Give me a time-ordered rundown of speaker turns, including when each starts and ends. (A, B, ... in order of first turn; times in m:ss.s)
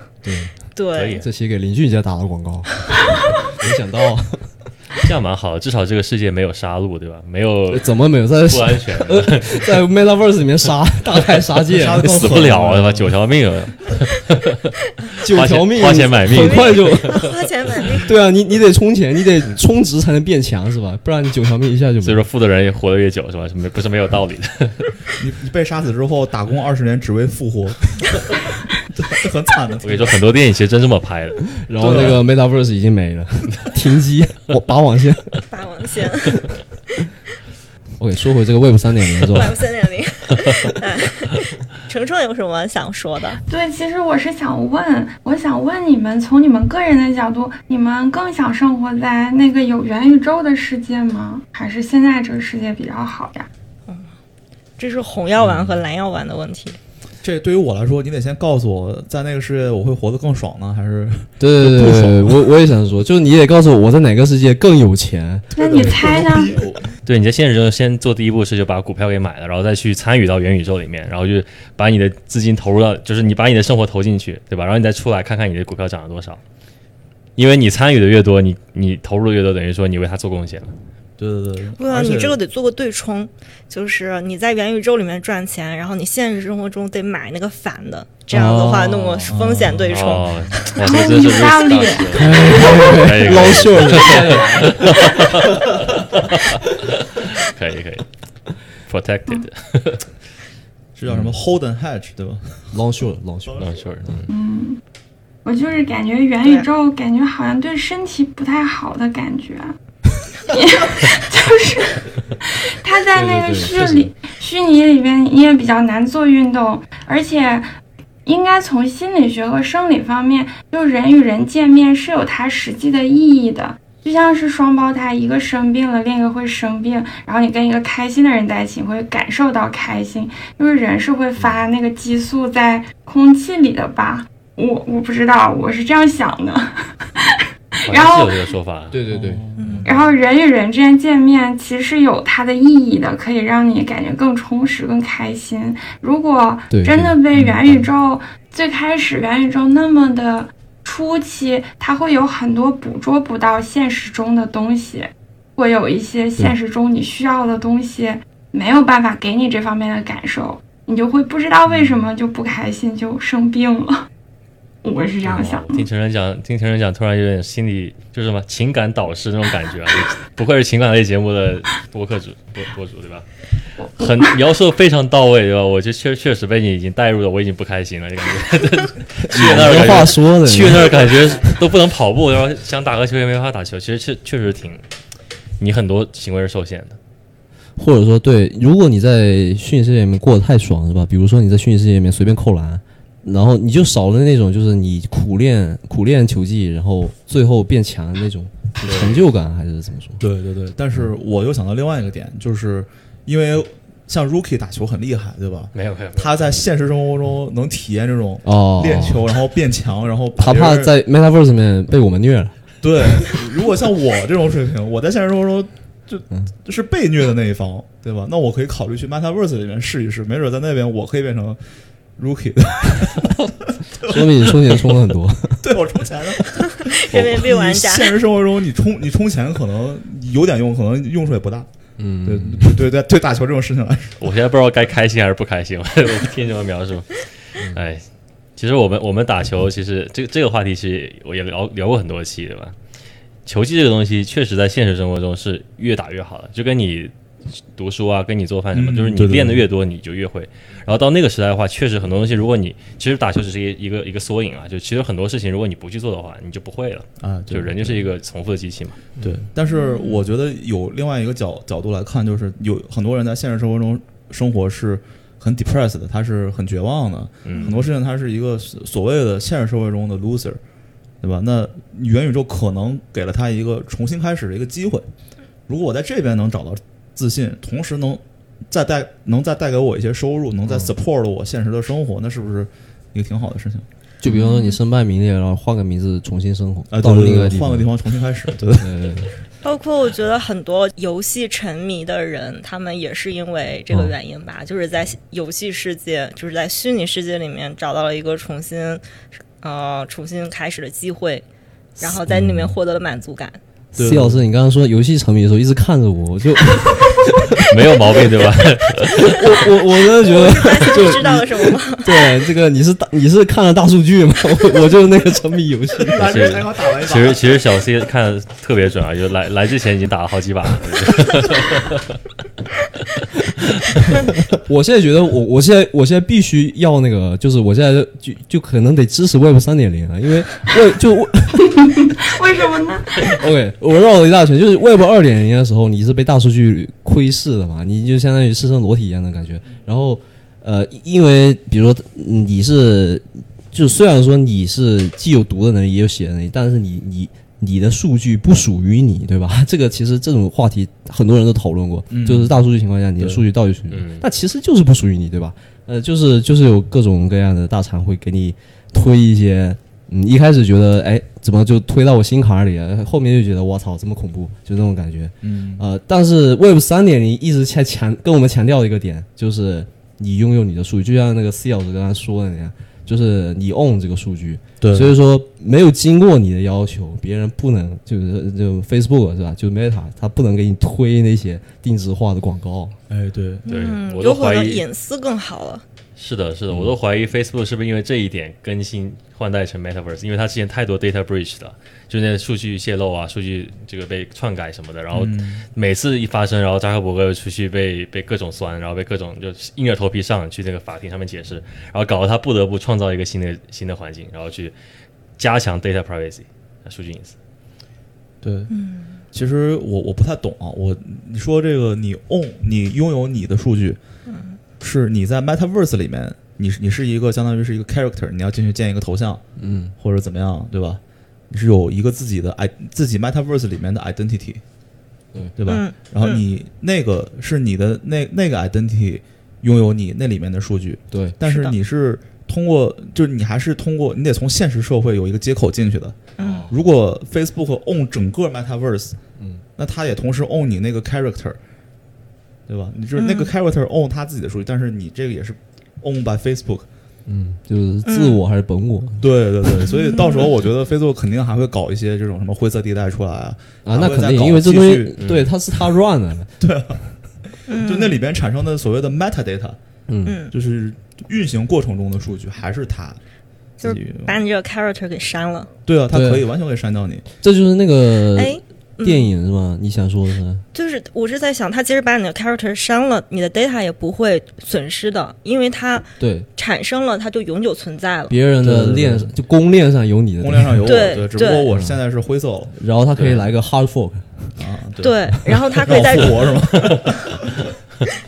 0:00.2-0:00.6 A
0:00.7-0:01.2 B
0:01.0-0:01.2 C
0:01.2-0:02.9 A
0:03.4-0:04.5 A
0:05.0-0:07.9 C
0:07.7-0:12.4 A
0:08.5-0:09.8 C
0:11.7-0:13.1 D
0:11.8-0:17.3 C
0:15.2-0:17.3 A
0:16.3-0:18.2 B
0:18.0-0:22.2 A
0:22.0-0:24.9 C
0:25.2-0:30.2 D
0:29.8-0:32.2 C
0:31.6-0:35.4 A
0:31.8-0:32.2 D
0:35.5-0:36.5 B
0:38.0-0:39.6 A
0:39.3-0:43.4 B
0:43.5-0:53.5 E
0:53.9-0:54.1 B
0:54.8-0:56.8 B
0:57.2-1:02.4 D
1:01.4-1:06.0 A
1:05.5-1:07.0 D
1:05.6-1:06.6 E
1:07.1-1:16.4 C
1:17.4-1:20.7 C
1:21.2-1:22.4 D
1:21.8-1:30.7 B
1:28.3-1:29.4 A
1:29.3-1:30.7 D
1:29.9-1:38.1 C
1:30.8-1:32.5 E
1:32.2-1:35.8 A
1:38.8-1:40.2 C
1:41.0-1:42.9 D
1:41.1-1:41.4 A
1:42.7-1:44.2 A
1:43.5-1:43.8 D
1:43.6-1:44.3 C
1:44.3-1:44.8 E
1:45.4-1:49.8 E
1:50.4-1:57.7 E
1:53.1-1:54.1 A
1:58.3-2:18.4 E
2:17.8-2:19.0 C
2:18.9-2:19.4 A
2:19.1-2:20.0 D
2:19.6-2:19.9 B
2:19.8-2:44.1 E
2:26.7-2:27.9 A
2:41.7-2:42.0 D
2:44.8-2:45.8 E
2:45.2-2:53.3 C
2:53.8-3:04.8 C
2:59.2-3:01.0 A
3:05.6-3:07.0 C
3:07.8-3:20.2 A
3:18.8-3:19.3 C
3:20.2-3:30.9 D
3:25.7-3:26.5 C
3:28.4-3:29.2 A
3:30.4-3:32.6 A
3:32.8-3:41.6 D
3:42.2-3:44.8 D
3:44.0-3:45.7 A
3:45.6-3:51.7 D
3:46.7-3:48.2 B
3:52.0-3:52.8 A
3:52.2-3:54.2 D
3:54.2-3:58.0 C
3:58.6-4:02.8 C
4:03.4-4:19.1 C
4:08.7-4:09.6 D
4:17.2-4:18.1 D
4:19.2-4:30.6 D
4:19.7-4:20.3 B
4:27.4-4:27.8 C
4:27.5-4:27.8 B
4:31.2-4:35.1 D
4:35.7-4:43.9 D
4:40.7-4:40.9 A
4:44.2-4:47.9 A
4:44.3-4:44.8 B
4:46.9-4:48.9 D
4:48.8-4:49.3 A
4:49.6-4:59.0 B
4:59.6-5:01.4 B
5:02.0-5:03.6 B
5:02.0-5:02.8 A
5:03.9-5:07.6 A
5:04.0-5:04.4 D
5:07.7-5:09.4 C
5:09.0-5:16.5 A
5:10.2-5:12.3 B
5:16.0-5:17.6 D
5:16.2-5:22.2 C
5:24.1-5:32.0 A
5:32.3-5:33.2 E
5:33.2-6:23.0 A
5:52.1-5:52.6 D
5:53.2-5:53.4 D
5:53.9-5:54.2 C
6:05.4-6:05.9 D
6:14.8-6:15.1 D
6:23.1-6:23.7 D
6:23.7-6:25.8 B
6:23.7-6:24.8 C
6:26.2-6:44.8 C
6:35.1-6:35.6 D
6:45.4-6:47.4 C
6:48.4-6:48.7 D
6:48.7-6:49.2 B
6:49.3-6:54.0 D
6:54.3-6:54.6 B
6:54.8-6:59.4 D
6:59.6-6:59.9 A
7:00.0-7:04.6 D
7:05.6-7:19.2 D
7:05.7-7:06.4 B
7:11.1-7:11.4 A
7:11.4-7:11.8 B
7:16.4-7:16.7 B
7:16.4-7:16.8 A
7:19.4-7:19.6 A
7:19.8-7:21.6 D
7:22.7-7:26.9 D
7:23.2-7:23.5 B
7:27.3-7:29.3 A
7:28.0-7:28.4 B
7:29.2-7:35.2 D
7:29.9-7:30.5 B
7:33.8-7:36.5 A
7:35.2-7:35.5 C
7:36.6-7:39.8 D
7:37.7-7:38.2 B
7:40.1-7:40.4 A
7:40.2-7:40.5 B
7:40.5-7:43.2 D
7:43.8-7:45.7 B
7:43.8-7:44.4 D
7:45.8-7:47.2 D
7:46.1-7:46.5 A
7:47.4-7:50.6 A
7:48.3-7:49.3 B
7:50.7-7:58.4 B
7:56.2-7:56.5 A
7:58.3-8:01.1 A
7:58.6-7:59.3 D
8:00.4-8:02.7 D
8:00.8-8:01.7 B
8:01.7-8:02.0 A
8:02.7-8:04.6 A
8:03.2-8:03.4 C
8:04.6-8:07.7 D
8:05.0-8:06.5 B